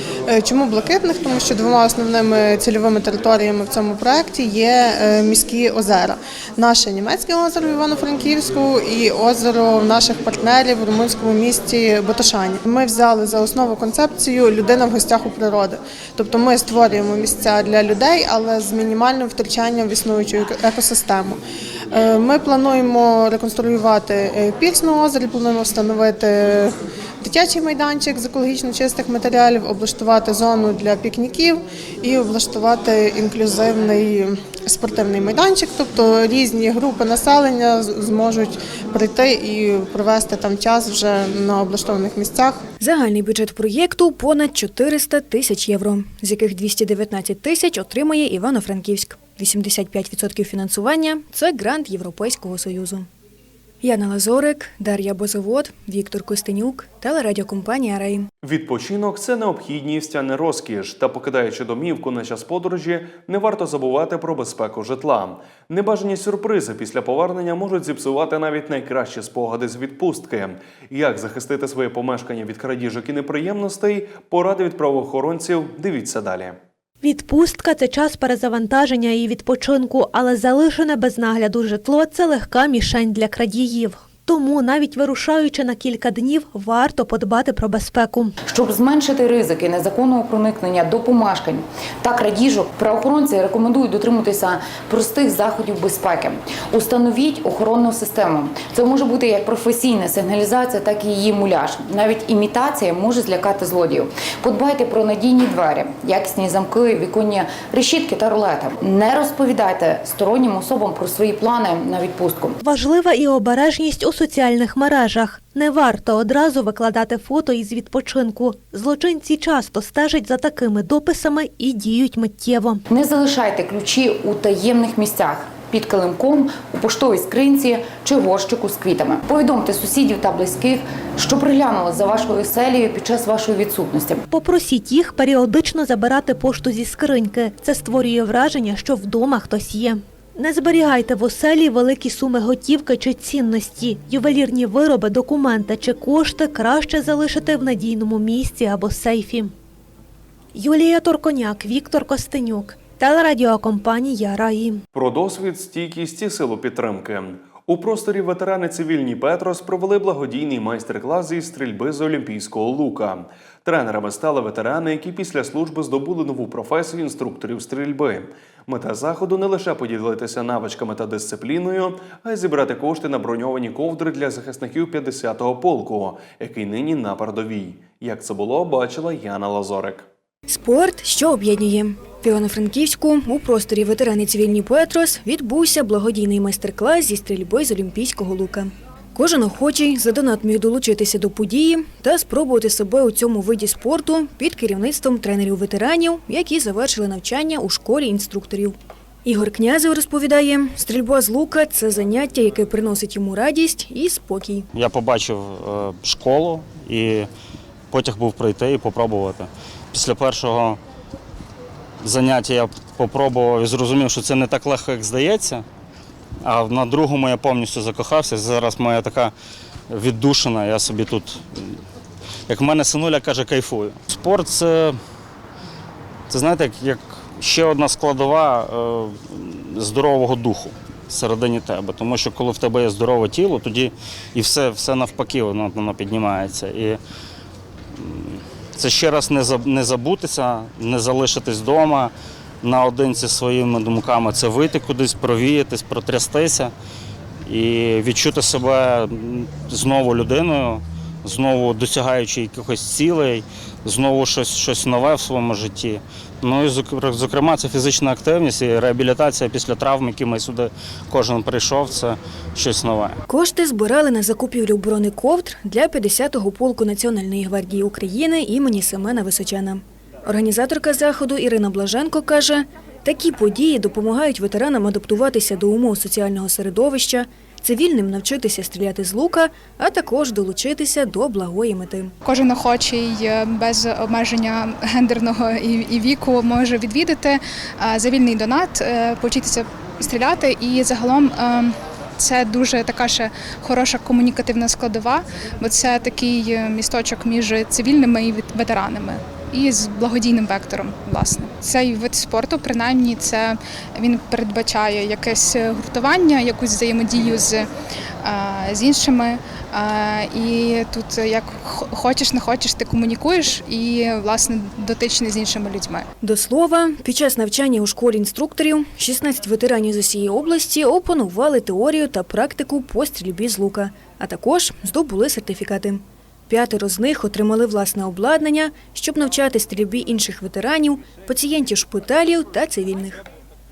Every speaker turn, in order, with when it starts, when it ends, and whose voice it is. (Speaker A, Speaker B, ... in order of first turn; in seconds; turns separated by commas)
Speaker A: 0.3-21.4, Speaker A: 21.9-26.7, Speaker A: 27.2-42.6, Speaker B: 42.8-53.1, Speaker B: 53.8-58.3, Speaker C: 58.4-76.6, Speaker D: 77.0-88.3, Speaker E: 88.5-112.5, Speaker D: 112.6-122.8, Speaker E: 122.9-134.2, Speaker D: 134.3-149.5, Speaker D: 150.5-154.8, Speaker C: 154.9-180.1, Speaker B: 180.5-204.7, Speaker F: 204.8-207.2, Speaker F: 207.9-210.8, Speaker F: 212.0-215.6, Speaker F: 216.4-219.3, Speaker F: 219.9-221.4, Speaker F: 222.5-224.9, Speaker F: 226.3-237.0, Speaker F: 238.1-242.1, Speaker F: 242.6-246.7, Speaker F: 247.5-263.1, Speaker B: 263.3-282.1, Speaker G: 282.2-307.7, Speaker G: 308.2-316.0, Speaker B: 316.2-333.2